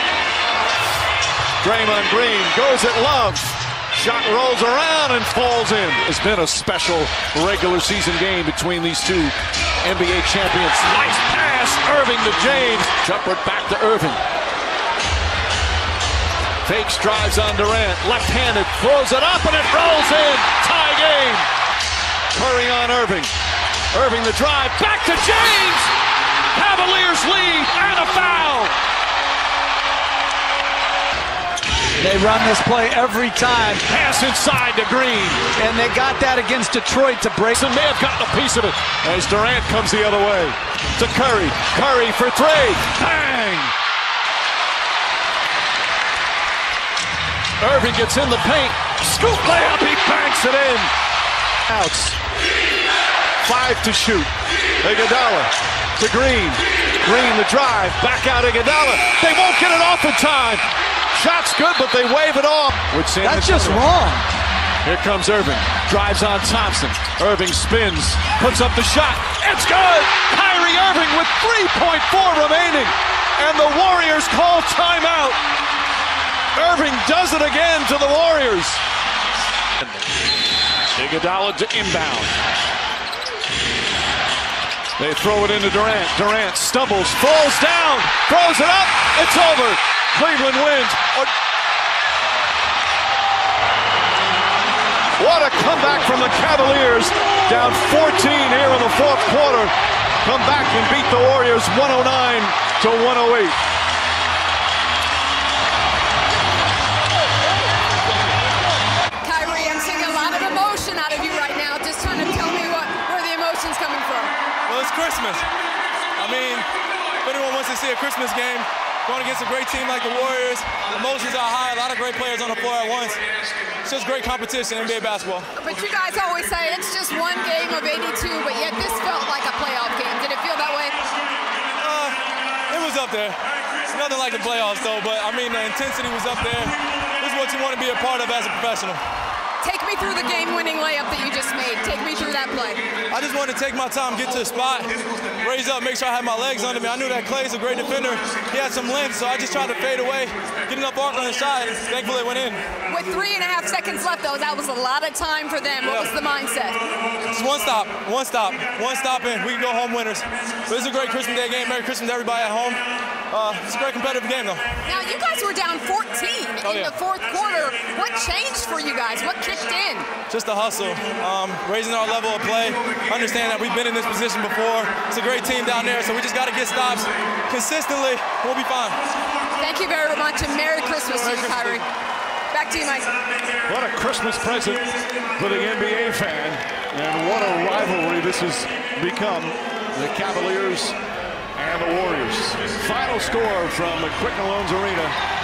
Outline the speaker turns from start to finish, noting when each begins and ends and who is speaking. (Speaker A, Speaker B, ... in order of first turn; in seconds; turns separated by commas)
Speaker A: 1.6-14.2, Speaker A: 16.6-21.5, Speaker A: 22.3-23.3, Speaker A: 23.9-25.9, Speaker A: 26.5-28.7, Speaker B: 32.0-33.8, Speaker A: 33.8-35.6, Speaker B: 35.6-37.6, Speaker A: 37.4-43.7, Speaker A: 47.6-50.9, Speaker A: 51.7-52.2, Speaker A: 53.4-54.3, Speaker A: 54.8-63.9, Speaker B: 63.2-64.3, Speaker A: 64.8-75.4, Speaker A: 76.5-78.8, Speaker A: 80.9-82.3, Speaker A: 85.0-91.3, Speaker A: 95.2-103.5, Speaker C: 109.2-114.3, Speaker D: 114.7-115.5, Speaker D: 116.2-116.7, Speaker D: 117.2-123.2, Speaker D: 123.8-125.5, Speaker C: 125.6-131.1, Speaker D: 131.8-139.0, Speaker C: 139.6-142.8, Speaker D: 143.1-152.7, Speaker C: 152.9-156.8, Speaker D: 155.8-156.1, Speaker D: 157.3-164.8, Speaker C: 164.8-170.1, Speaker D: 166.6-166.9, Speaker D: 170.3-179.0, Speaker C: 179.6-181.8, Speaker D: 181.1-181.8, Speaker C: 182.5-183.1, Speaker A: 183.7-184.8, Speaker A: 185.3-190.9, Speaker A: 191.6-195.2